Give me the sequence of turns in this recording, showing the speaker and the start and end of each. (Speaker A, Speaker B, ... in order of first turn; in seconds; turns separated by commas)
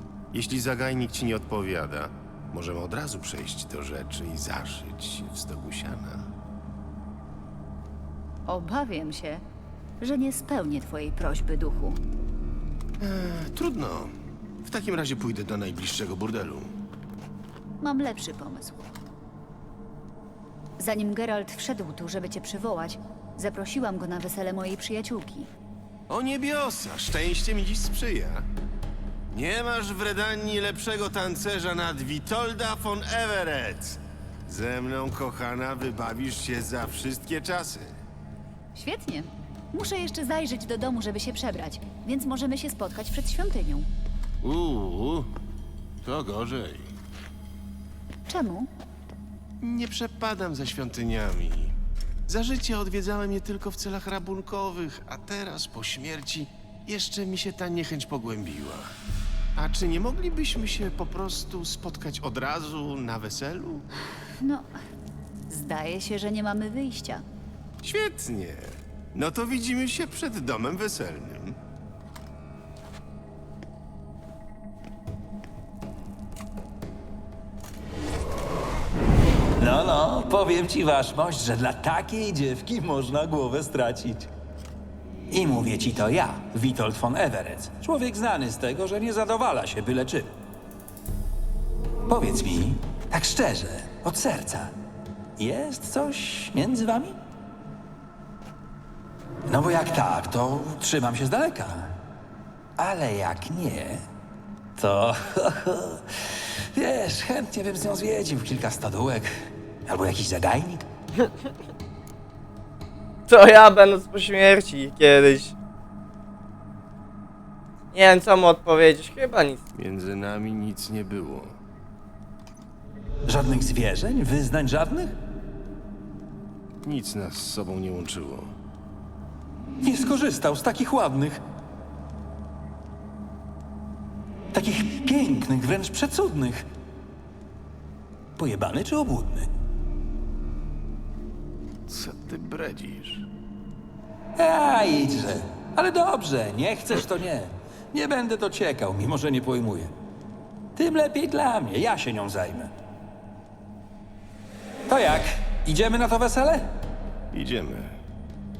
Speaker A: 0.3-6.3, Speaker B: 8.5-9.4, Speaker B: 10.0-12.0, Speaker A: 13.0-16.7, Speaker B: 17.8-18.9, Speaker B: 20.8-25.5, Speaker A: 26.1-28.5, Speaker A: 29.3-38.0, Speaker B: 38.7-43.9, Speaker A: 44.4-45.3, Speaker A: 46.0-46.9, Speaker B: 48.3-48.7, Speaker A: 49.6-58.9, Speaker A: 59.5-63.9, Speaker B: 64.4-64.7, Speaker B: 65.5-67.2, Speaker A: 67.8-71.6, Speaker C: 79.5-84.3, Speaker C: 85.3-90.3, Speaker C: 92.1-94.7, Speaker C: 95.4-97.2, Speaker C: 99.5-102.0, Speaker C: 102.8-104.0, Speaker C: 104.8-109.3, Speaker C: 109.8-110.9, Speaker D: 113.3-115.5, Speaker D: 117.9-119.6, Speaker A: 119.7-121.6, Speaker C: 123.2-125.2, Speaker A: 126.8-128.5, Speaker C: 129.8-131.4, Speaker C: 134.5-136.7, Speaker C: 138.3-139.5, Speaker A: 141.9-143.3, Speaker C: 144.4-149.9, Speaker C: 150.8-152.7, Speaker C: 154.9-156.7, Speaker A: 157.3-158.0